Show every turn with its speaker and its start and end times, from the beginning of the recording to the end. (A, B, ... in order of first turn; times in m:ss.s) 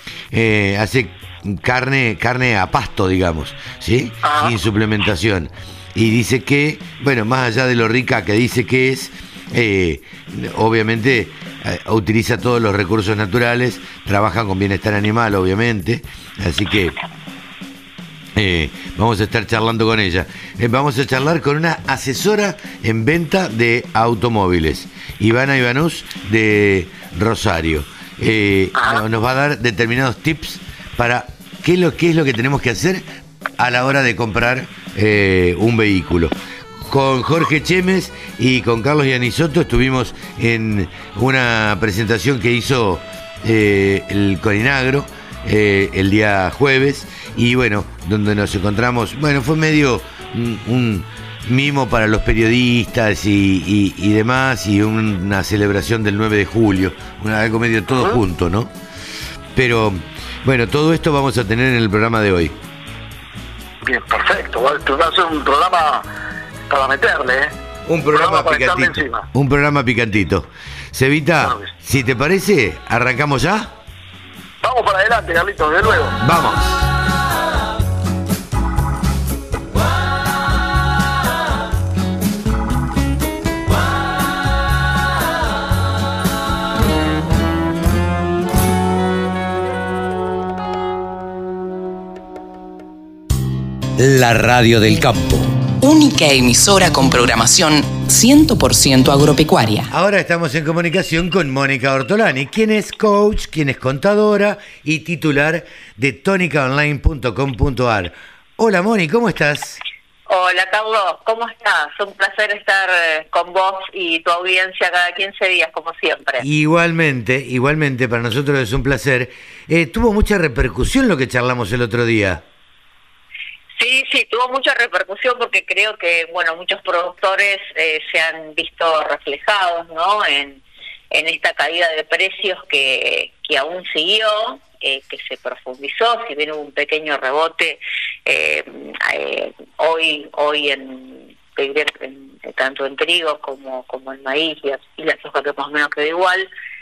0:00.3-0:17.0 A
0:18.4-0:33.0 A
0:28.8-0:29.0 B
0:33.6-0:36.3 A
0:36.9-0:58.7 A
0:57.9-0:58.2 B
0:59.5-1:02.6 A
1:03.8-1:06.0 B
1:06.7-1:07.5 B
1:07.8-1:13.7 A
1:08.1-1:09.3 B
1:11.4-1:11.7 B
1:14.6-1:16.2 B
1:16.2-1:16.8 A
1:34.0-1:35.5 A
1:35.8-1:39.9 C
1:39.9-1:49.8 A
1:50.3-1:56.4 D
1:56.4-2:02.4 A
2:03.8-2:26.5 D